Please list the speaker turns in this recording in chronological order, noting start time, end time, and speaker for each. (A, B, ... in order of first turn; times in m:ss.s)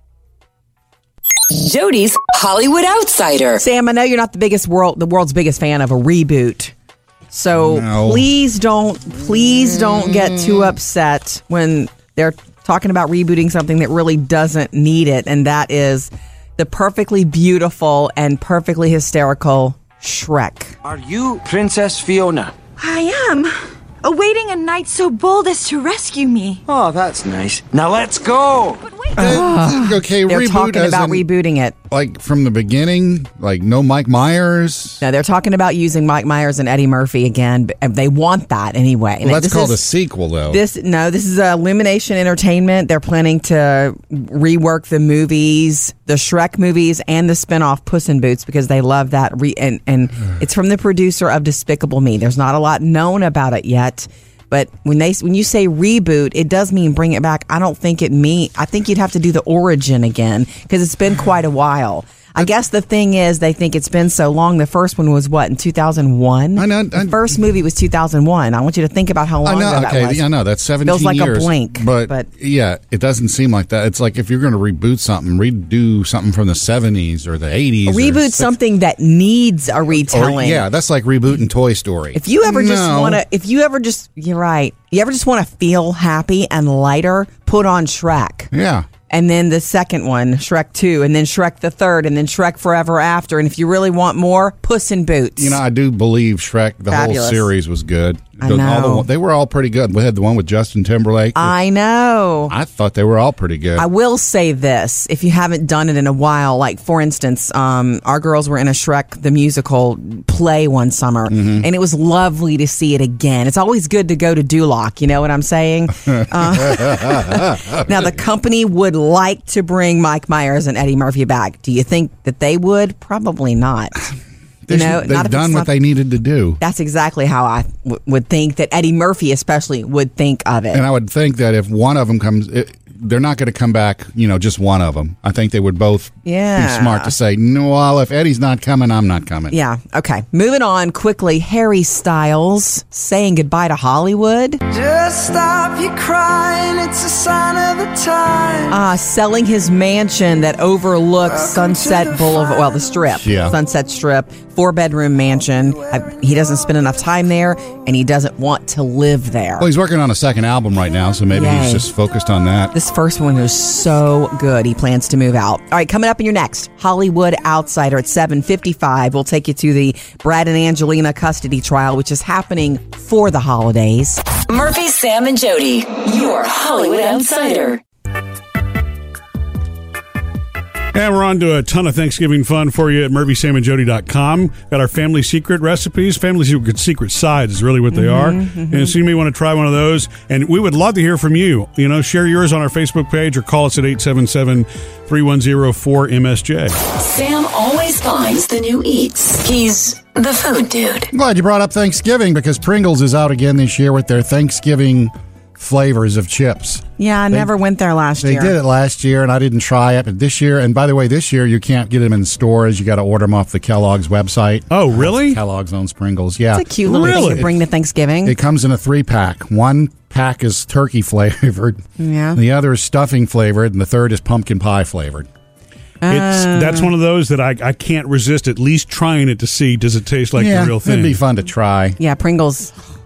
0:01.5-0:03.6 A
0:03.6-0:06.7 B
0:07.3-0:20.7 B
0:07.6-0:08.3 C
0:20.8-0:22.5 D
0:22.8-0:26.6 E
0:26.7-0:28.8 D
0:29.2-0:31.3 C
0:29.2-0:31.8 B
0:31.9-0:35.0 C
0:35.0-0:39.8 B
0:39.2-0:40.6 C
0:40.5-1:10.2 B
1:06.6-1:07.2 C
1:09.4-1:18.5 C
1:10.8-1:12.3 B
1:17.8-1:20.6 B
1:20.0-1:23.2 C
1:22.1-1:28.5 B
1:28.5-1:28.9 C
1:29.1-1:35.6 B
1:35.4-1:41.5 C
1:36.9-1:37.5 B
1:38.4-1:39.1 B
1:41.4-1:42.5 B
1:42.5-1:43.9 C
1:43.8-2:04.1 B
1:51.3-1:51.6 C
1:56.1-1:57.8 C
2:04.6-2:06.6 C
2:04.7-2:05.7 B
2:06.6-2:10.8 B
2:10.7-2:19.6 C
2:16.2-2:17.1 B
2:19.5-2:24.6 B
2:24.7-2:28.8 D
2:28.7-2:39.7 B
2:31.2-2:32.9 D
2:33.2-2:33.6 C
2:39.6-2:42.7 C
2:41.3-2:41.9 B
2:42.7-2:54.2 B
2:54.4-2:57.8 A
3:00.9-3:16.8 F
3:07.9-3:08.9 B
3:16.9-3:21.1 A
3:21.1-3:27.5 C
3:27.0-3:28.6 B
3:28.2-3:37.5 C
3:34.7-3:35.4 F
3:36.5-3:38.4 B
3:36.9-3:37.5 F
3:38.2-3:45.3 C
3:42.0-3:42.4 B
3:46.0-3:46.9 B
3:46.1-3:51.2 F
3:50.4-3:52.0 C
3:52.0-3:52.7 B